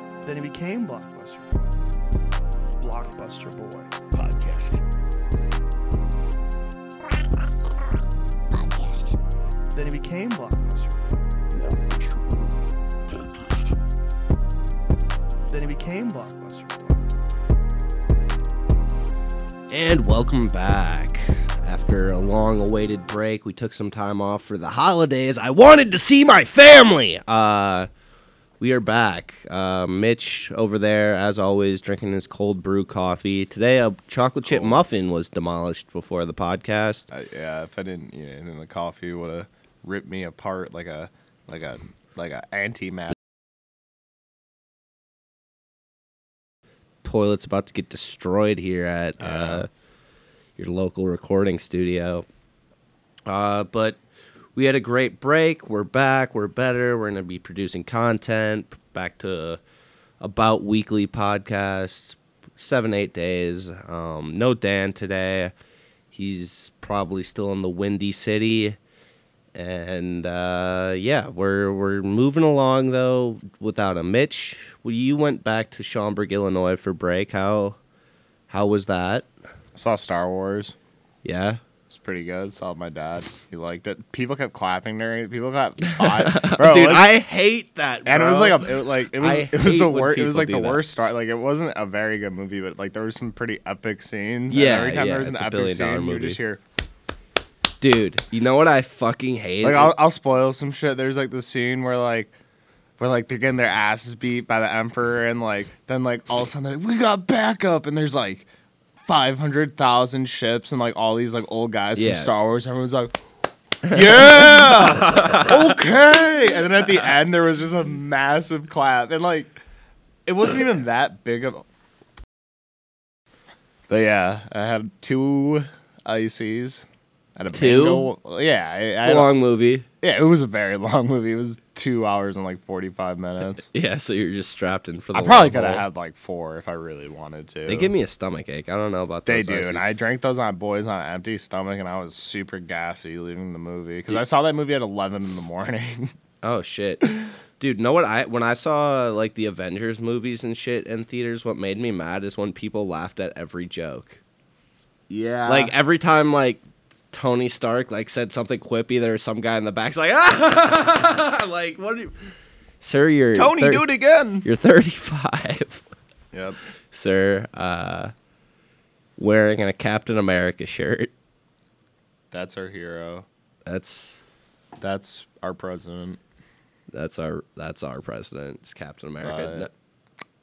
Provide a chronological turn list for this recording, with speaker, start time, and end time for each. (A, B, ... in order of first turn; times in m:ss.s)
0:00.2-0:01.8 A
0:02.8-0:04.8 A
0:08.5-0:09.1 A
0:09.7-0:12.0 A
0:15.5-0:16.9 A
0:19.7-0:27.9 B
0:28.6-0:37.1 B
0:34.4-0:34.8 C
0:37.1-0:43.1 C
0:47.0-0:49.7 B
0:49.2-0:49.7 C
0:50.6-0:52.2 B
0:53.2-0:54.0 B
0:54.5-0:59.6 B
1:00.2-1:05.5 B
1:06.1-1:08.8 B
1:09.6-1:17.8 B
1:18.5-1:19.3 B
1:19.8-1:20.8 C
1:21.2-1:21.6 B
1:21.9-1:27.2 C
1:26.0-1:30.8 B
1:28.0-1:36.6 C
1:34.5-1:36.4 B
1:37.8-1:40.0 B
1:39.6-1:42.3 C
1:43.0-1:48.5 C
1:49.0-1:53.2 C
1:52.0-1:52.3 B
1:53.9-1:55.8 B
1:53.9-1:59.6 C
2:00.3-2:01.7 C
2:03.9-2:09.4 C
2:07.5-2:08.1 B
2:08.9-2:09.8 B
2:10.0-2:13.7 C
2:13.6-2:15.9 B
2:15.1-2:17.9 C
2:17.7-2:19.9 B
2:19.2-2:26.1 C
2:26.4-2:34.2 B
2:35.1-2:35.7 C
2:35.5-2:43.8 B
2:43.3-2:44.5 C
2:44.4-2:45.8 B
2:46.3-2:46.6 C
2:46.9-2:48.1 B
2:49.2-2:51.1 B
2:52.3-2:53.2 C
2:53.7-2:54.2 B
2:54.8-2:56.2 C
2:56.9-2:59.7 B
2:59.2-2:59.7 C